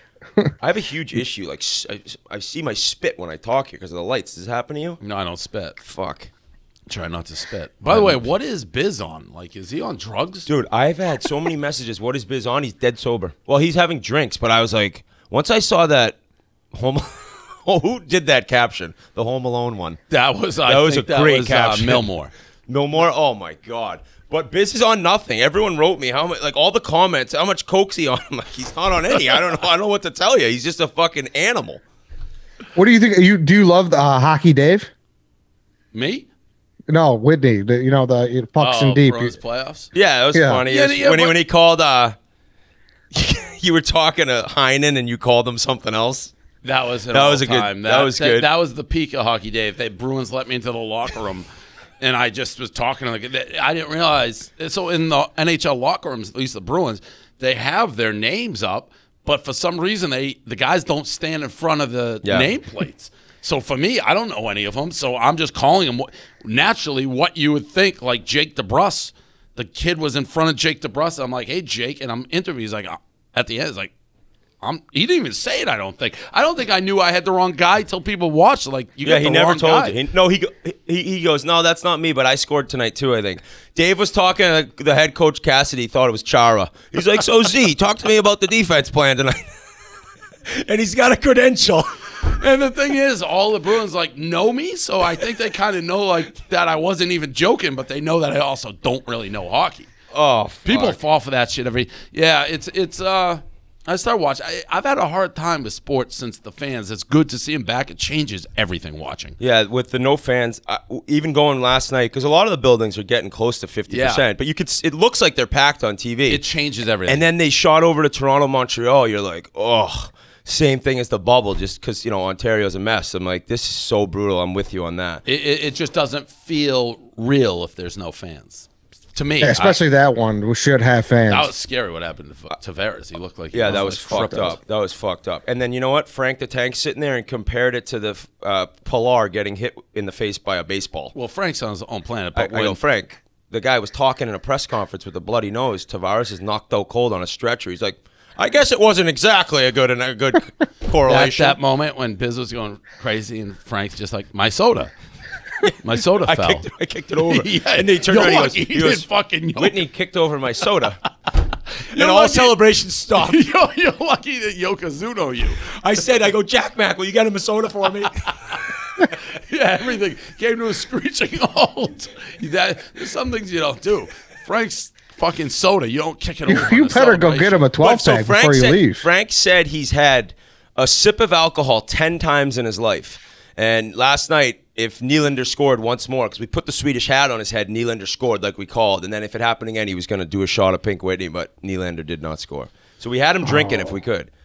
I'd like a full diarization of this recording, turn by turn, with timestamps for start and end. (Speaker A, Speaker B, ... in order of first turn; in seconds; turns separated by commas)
Speaker A: 0.6-5.0, Speaker B: 5.0-5.8, Speaker A: 5.8-6.3, Speaker B: 6.9-10.5, Speaker A: 7.9-8.2, Speaker A: 10.5-16.2, Speaker A: 16.7-20.0, Speaker B: 20.1-22.3, Speaker A: 20.7-22.0, Speaker A: 22.7-31.8, Speaker C: 32.8-34.9, Speaker B: 35.9-36.3, Speaker C: 36.9-39.3, Speaker B: 38.6-39.9, Speaker A: 39.9-42.2, Speaker C: 40.3-40.6, Speaker B: 40.7-41.4, Speaker A: 43.1-46.3, Speaker B: 46.6-51.5, Speaker A: 47.1-48.5, Speaker B: 52.0-73.9, Speaker A: 62.2-62.5, Speaker B: 74.6-80.0, Speaker A: 79.0-89.4, Speaker A: 90.5-92.3, Speaker B: 92.3-99.9, Speaker A: 100.1-101.0, Speaker B: 100.7-109.4, Speaker A: 109.4-116.4, Speaker B: 113.9-114.2, Speaker B: 116.3-117.2, Speaker A: 117.1-125.2, Speaker B: 125.3-129.8, Speaker C: 129.4-131.5, Speaker B: 131.3-134.6, Speaker A: 133.5-141.1, Speaker B: 141.1-142.8, Speaker A: 142.3-151.6, Speaker B: 151.1-154.9, Speaker A: 155.6-161.1, Speaker B: 155.8-156.7, Speaker B: 157.2-159.8, Speaker B: 161.8-162.6, Speaker A: 161.9-163.4, Speaker B: 163.2-165.7, Speaker A: 165.7-169.1, Speaker B: 169.3-177.7, Speaker C: 176.5-179.1, Speaker A: 177.8-194.3, Speaker C: 193.5-193.9